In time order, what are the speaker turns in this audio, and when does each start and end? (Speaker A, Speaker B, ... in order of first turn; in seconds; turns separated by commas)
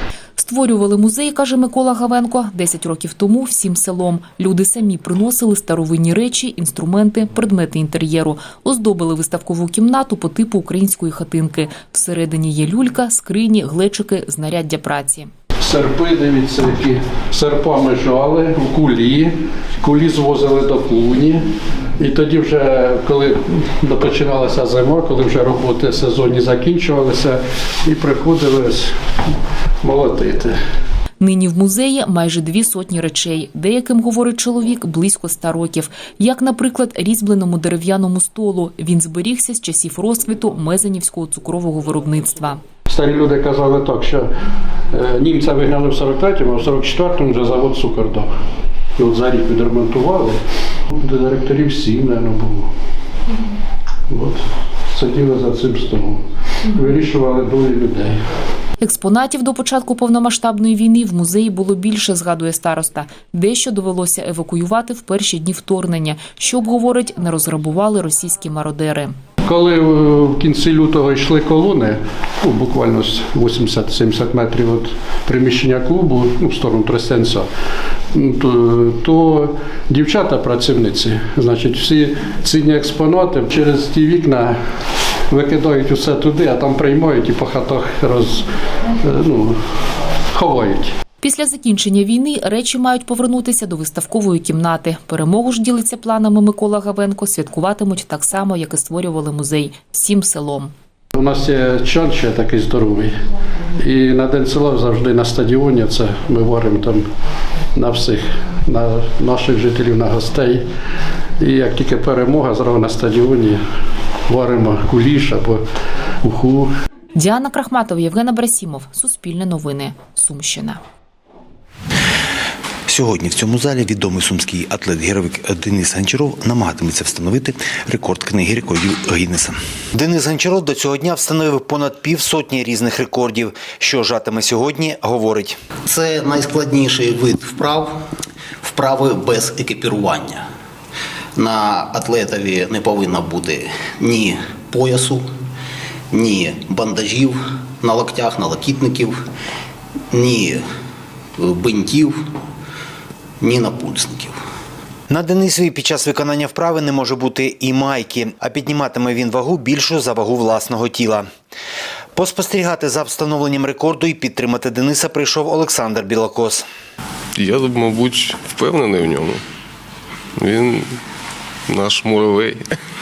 Speaker A: 0.4-15.3, Speaker B: 15.6-21.4, Speaker B: 22.0-28.9, Speaker B: 29.8-30.6, Speaker A: 31.2-42.6, Speaker B: 42.9-44.3, Speaker B: 44.9-48.3, Speaker B: 49.0-50.4, Speaker B: 50.9-52.7, Speaker B: 54.1-58.1, Speaker A: 58.8-69.2, Speaker B: 69.4-77.5, Speaker B: 78.1-84.6, Speaker B: 85.3-88.5, Speaker B: 89.0-89.6, Speaker B: 90.3-90.9, Speaker A: 91.2-100.7, Speaker B: 101.1-103.1, Speaker B: 103.8-107.0, Speaker B: 107.7-110.6, Speaker B: 111.4-113.6, Speaker B: 114.3-115.6, Speaker B: 116.2-116.7, Speaker A: 117.2-120.8, Speaker C: 122.9-135.6, Speaker D: 135.9-137.9, Speaker D: 138.6-140.4, Speaker D: 141.3-145.2, Speaker D: 146.1-149.1, Speaker D: 150.1-150.6, Speaker D: 151.4-152.2, Speaker D: 153.4-154.3, Speaker C: 155.1-161.3, Speaker C: 162.1-166.6, Speaker E: 167.4-169.4, Speaker E: 170.4-170.8, Speaker E: 171.7-172.6